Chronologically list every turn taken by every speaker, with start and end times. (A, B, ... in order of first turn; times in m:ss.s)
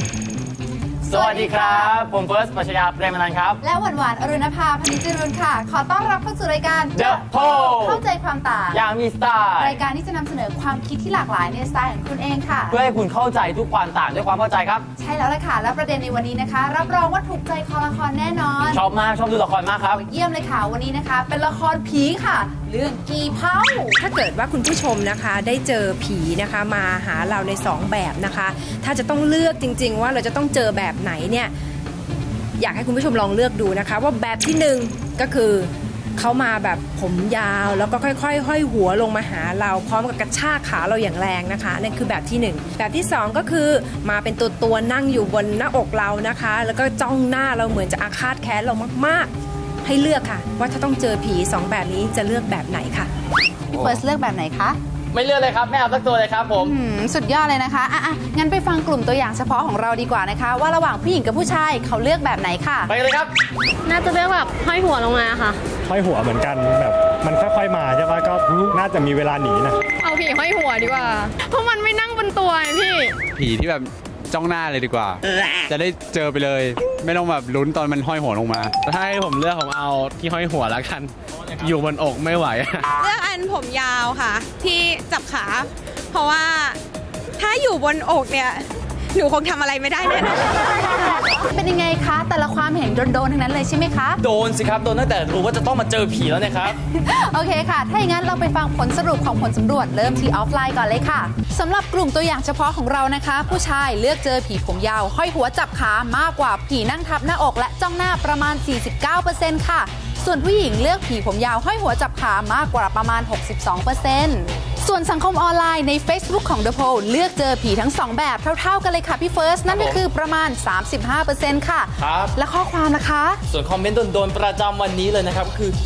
0:01.0-0:01.9 A
0:01.1-0:03.6 B
0:03.6-0:08.8 A
0:06.9-0:08.0 B
0:08.7-0:09.8 B
0:09.6-0:12.8 A
0:12.7-0:14.8 B
0:15.0-0:18.8 A
0:18.7-0:20.0 B
0:19.9-0:24.0 A
0:24.0-0:31.5 C
0:32.6-0:49.3 C
0:49.8-0:53.1 C
0:53.7-0:54.0 B
0:53.7-0:54.8 A
0:55.1-0:56.7 B
0:56.6-1:02.9 A
1:02.9-1:03.3 B
1:03.9-1:05.6 D
1:05.8-1:09.8 E
1:10.0-1:13.2 D
1:13.3-1:18.8 F
1:18.8-1:22.9 G
1:23.0-1:26.8 H
1:27.4-1:31.2 H
1:31.5-1:34.2 A
1:34.2-1:36.7 B
1:36.7-2:03.4 A
1:59.7-2:00.0 B
2:02.0-2:02.3 B
2:03.6-2:04.5 B
2:05.4-2:05.7 B